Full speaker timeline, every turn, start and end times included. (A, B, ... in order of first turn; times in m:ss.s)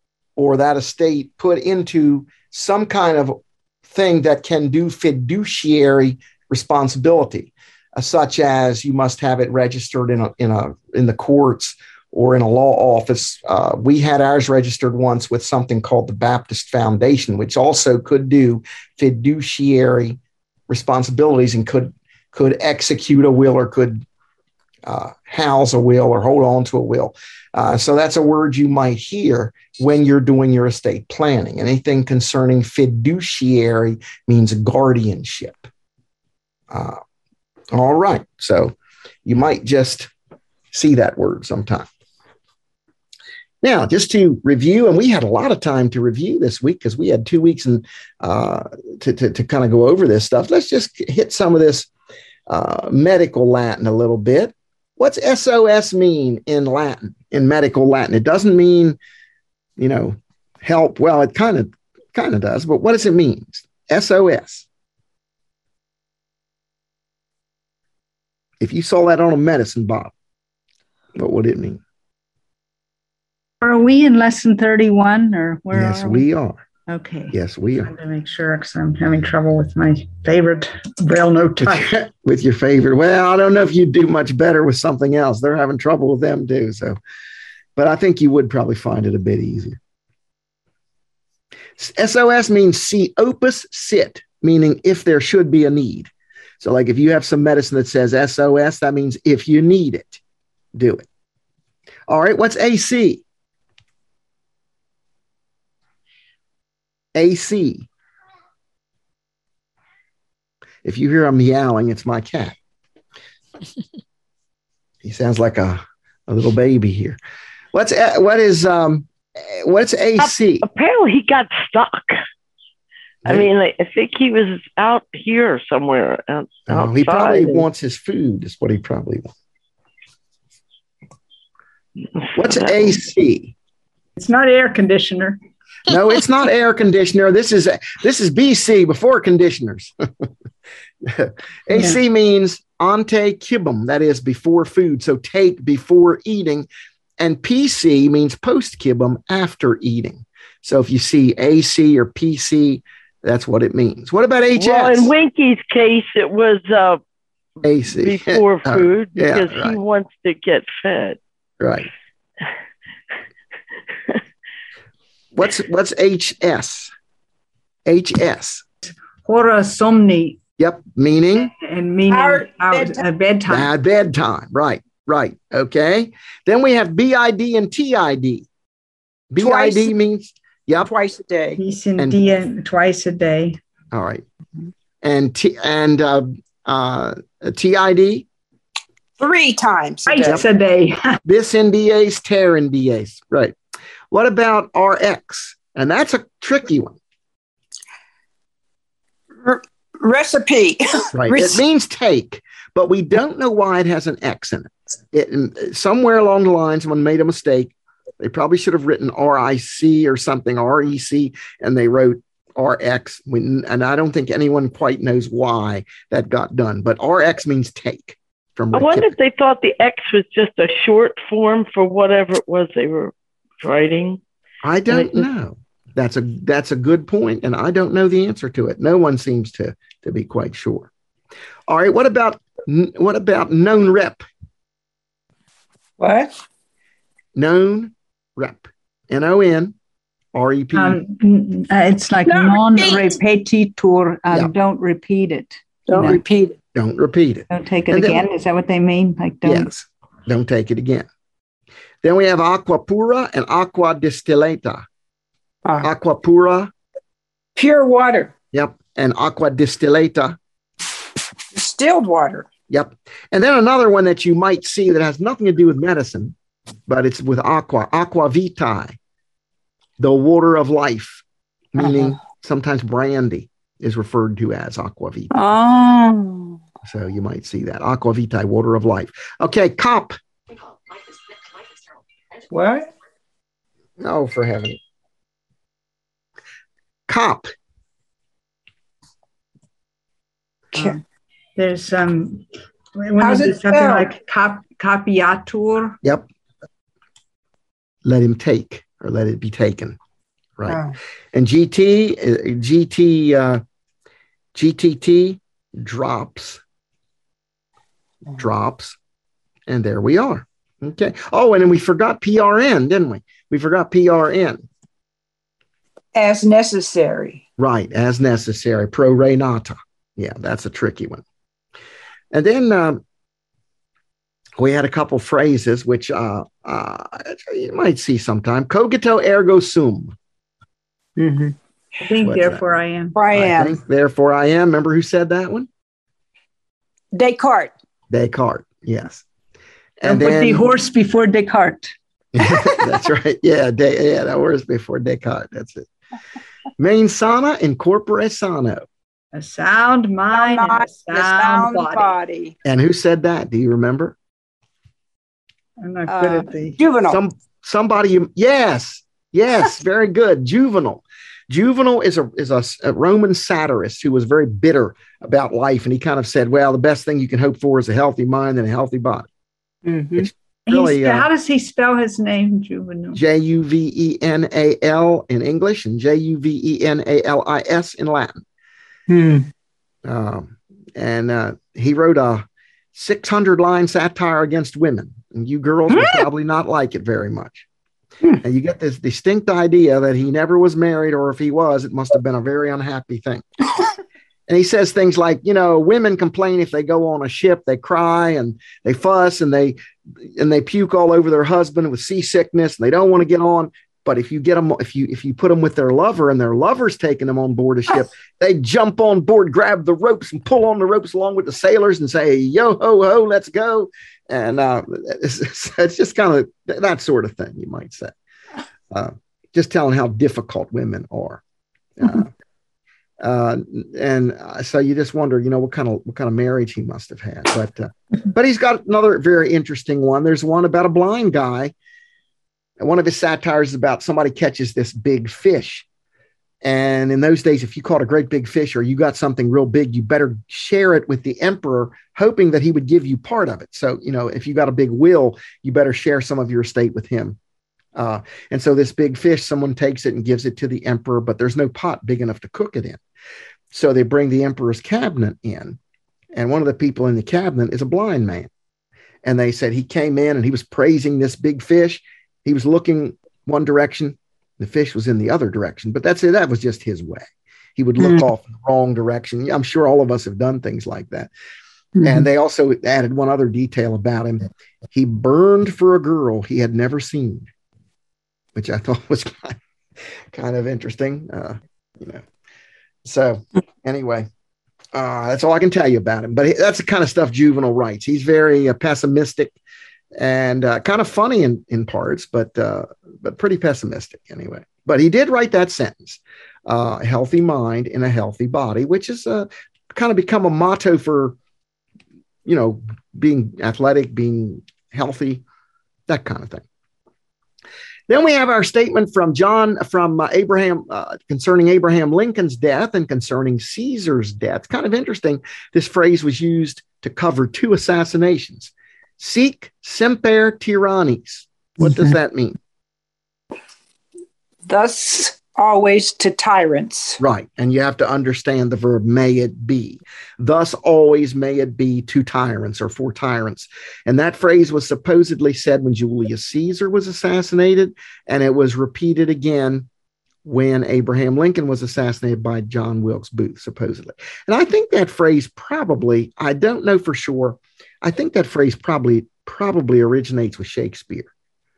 0:00.4-0:24.0 A
0:24.8-0:35.7 A
0:36.7-0:37.0 A
0:37.7-0:40.1 A
0:40.7-0:41.9 A
0:43.6-0:51.9 A
0:52.5-0:59.0 A
0:59.8-1:04.7 A
1:08.6-1:10.1 A
1:11.2-1:11.8 A
1:13.6-1:16.3 B
1:15.7-1:16.6 A
1:16.9-1:21.9 B
1:17.3-1:17.9 A
1:21.6-1:27.0 A
1:27.8-1:29.8 A
1:31.8-1:36.1 A
1:36.6-1:40.2 A
1:40.8-1:41.0 A
1:42.1-1:43.2 A
1:47.2-1:47.9 A
1:50.8-1:52.6 A
1:55.0-1:57.2 A
1:57.7-2:00.6 A
2:00.2-2:02.2 C
2:03.2-2:07.7 C
2:06.7-2:09.3 A
2:12.4-2:13.0 C
2:12.4-2:13.6 A
2:14.2-2:15.4 B
2:15.9-2:19.9 A
2:21.0-2:26.7 A
2:27.2-2:35.1 A
2:34.6-2:37.0 C
2:37.6-2:39.8 A
2:37.9-2:41.2 C
2:41.6-2:41.9 A
2:45.3-2:46.9 A
2:47.8-2:48.6 A
2:48.8-2:50.4 B
2:50.6-2:51.5 A
2:51.4-2:53.7 B
2:52.1-2:53.0 D
2:53.5-2:58.5 A
2:59.3-3:00.9 A
2:59.4-2:59.9 D
3:00.9-3:01.6 D
3:01.6-3:03.6 B
3:03.9-3:04.2 A
3:05.0-3:08.3 A
3:09.2-3:10.4 D
3:10.1-3:11.2 B
3:11.2-3:13.6 A
3:14.1-3:17.0 A
3:19.4-3:21.6 D
3:21.1-3:39.2 A
3:38.7-3:44.2 C
3:44.6-3:50.9 A
3:44.9-3:45.3 C
3:51.7-3:54.2 A
3:56.0-3:56.3 D
3:57.4-3:59.8 A
4:00.3-4:01.0 A
4:00.7-4:06.2 B
4:02.3-4:03.2 D
4:05.9-4:06.6 D
4:05.9-4:06.2 A
4:06.8-4:08.2 A
4:07.5-4:09.7 B
4:09.4-4:11.1 A
4:12.0-4:14.8 A
4:15.8-4:16.7 A
4:17.6-4:18.3 D
4:18.5-4:20.4 A
4:21.5-4:22.5 D
4:22.7-4:26.4 A
4:26.9-4:29.0 A
4:30.0-4:35.3 A
4:31.8-4:32.2 D
4:35.3-4:36.6 D
4:36.8-4:40.2 A
4:42.5-4:42.9 D
4:44.0-4:44.8 A
4:47.1-4:47.5 A
4:51.6-4:56.0 B
4:53.2-4:54.1 D
4:58.0-5:00.0 A
5:00.7-5:01.0 D
5:01.3-5:03.6 A
5:04.5-5:06.6 A
5:08.4-5:09.0 A
5:09.7-5:14.7 A
5:16.2-5:17.4 D
5:17.6-5:21.2 A
5:22.3-5:23.0 A
5:24.6-5:30.2 A
5:31.2-5:31.6 D
5:32.0-5:33.2 B
5:32.2-5:32.6 A
5:33.2-5:33.8 D
5:33.3-5:35.7 A
5:37.1-5:37.7 D
5:38.1-5:39.2 A
5:40.0-5:40.7 A
5:40.0-5:41.9 B
5:42.3-5:45.9 A
5:46.8-5:48.8 A
5:49.3-5:52.1 B
5:50.3-5:52.6 D
5:52.6-5:54.2 A
5:55.8-5:56.8 B
5:56.1-5:57.2 D
5:57.1-6:09.3 A
6:09.8-6:10.3 D
6:10.2-6:11.3 A
6:10.7-6:13.2 B
6:13.1-6:18.4 A
6:19.1-6:19.5 D
6:20.0-6:27.7 A
6:25.9-6:26.3 D
6:28.4-6:33.4 A
6:34.5-6:58.2 A
6:58.9-7:01.4 A
7:02.0-7:02.3 A
7:03.2-7:11.7 A
7:12.8-7:15.9 A
7:16.6-7:27.4 A
7:28.0-7:33.0 A
7:33.7-7:35.8 A
7:36.3-7:38.5 A
7:39.2-7:51.3 A
7:48.0-7:48.3 D
7:52.0-7:52.3 D
7:52.0-7:57.5 A
7:58.6-7:59.6 A
8:00.3-8:02.2 A
8:03.0-8:04.3 A
8:04.9-8:09.6 A
8:10.2-8:21.4 A
8:22.5-8:25.4 A
8:26.1-8:26.6 A
8:28.1-8:42.6 A
8:41.8-8:42.1 D
8:44.7-8:47.2 D
8:47.2-8:59.9 A
9:00.4-9:11.3 A